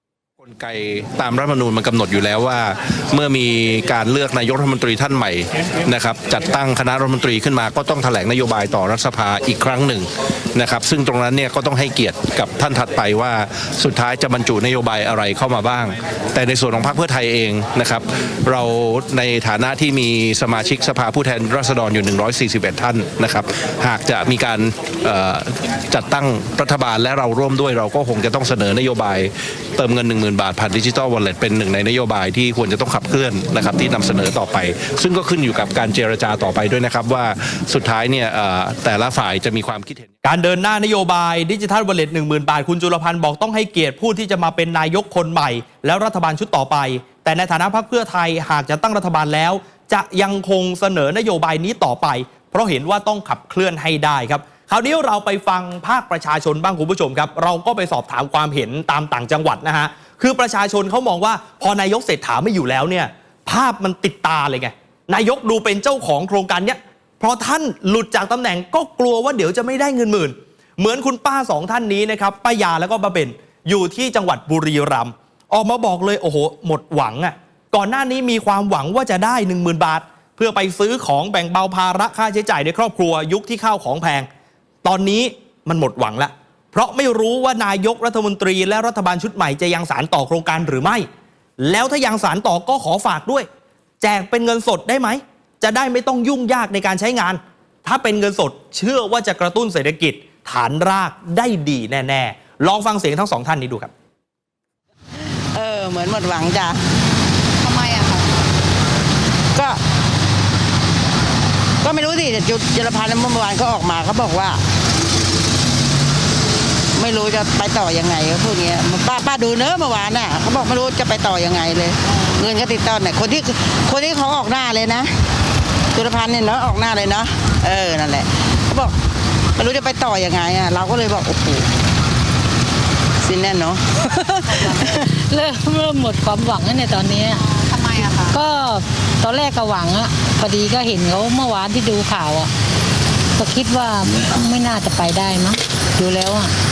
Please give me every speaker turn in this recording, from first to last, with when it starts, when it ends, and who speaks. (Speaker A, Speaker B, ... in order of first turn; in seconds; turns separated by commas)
Speaker A: 0.4-40.1, Speaker B: 40.2-84.3, Speaker B: 84.8-91.1, Speaker B: 91.6-93.5, Speaker B: 94.0-103.9, Speaker C: 105.5-106.8, Speaker D: 107.6-108.3, Speaker C: 109.5-109.8, Speaker C: 111.8-114.6, Speaker C: 117.0-125.1, Speaker C: 125.9-128.9, Speaker C: 129.6-131.7, Speaker C: 133.2-134.7, Speaker D: 134.5-134.8, Speaker E: 135.1-137.4, Speaker D: 137.3-138.4, Speaker E: 138.3-142.5, Speaker E: 143.4-146.5